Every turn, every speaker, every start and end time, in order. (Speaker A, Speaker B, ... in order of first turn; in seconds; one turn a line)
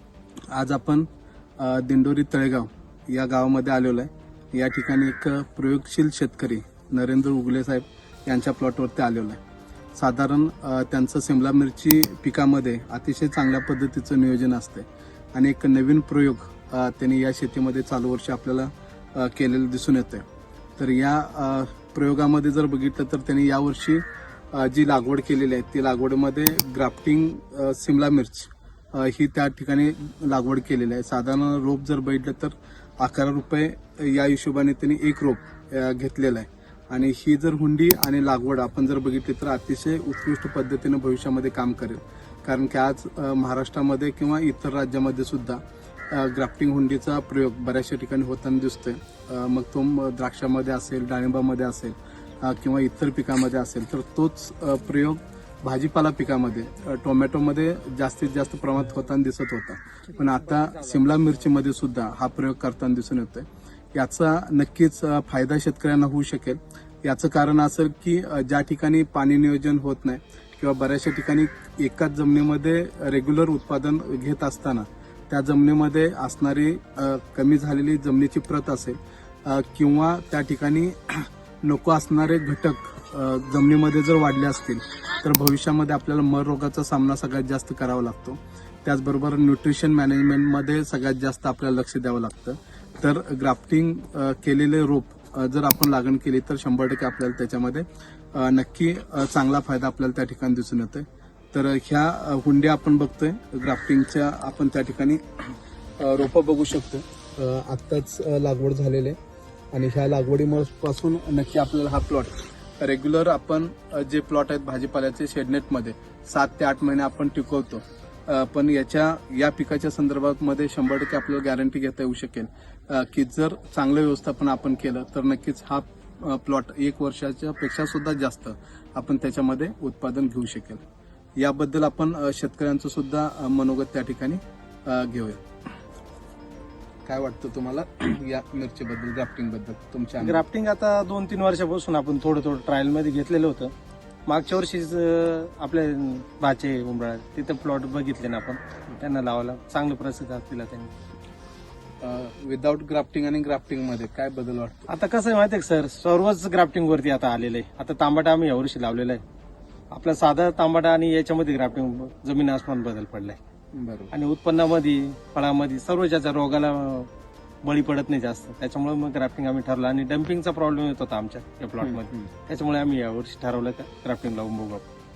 Speaker A: 0.5-1.1
Speaker A: 1.6-9.4
Speaker A: 9.9-20.2
Speaker A: 20.8-105.2
Speaker A: 106.0-109.2
Speaker A: 109.7-130.8
Speaker A: 131.4-135.4
Speaker A: 137.1-140.4
Speaker B: 140.2-143.7
Speaker B: 144.2-150.9
Speaker A: 152.0-154.9
Speaker B: 154.9-159.2
Speaker B: 159.9-163.4
Speaker A: 163.7-164.1
Speaker B: 164.1-167.1
Speaker B: 167.6-174.8
Speaker A: 171.8-172.3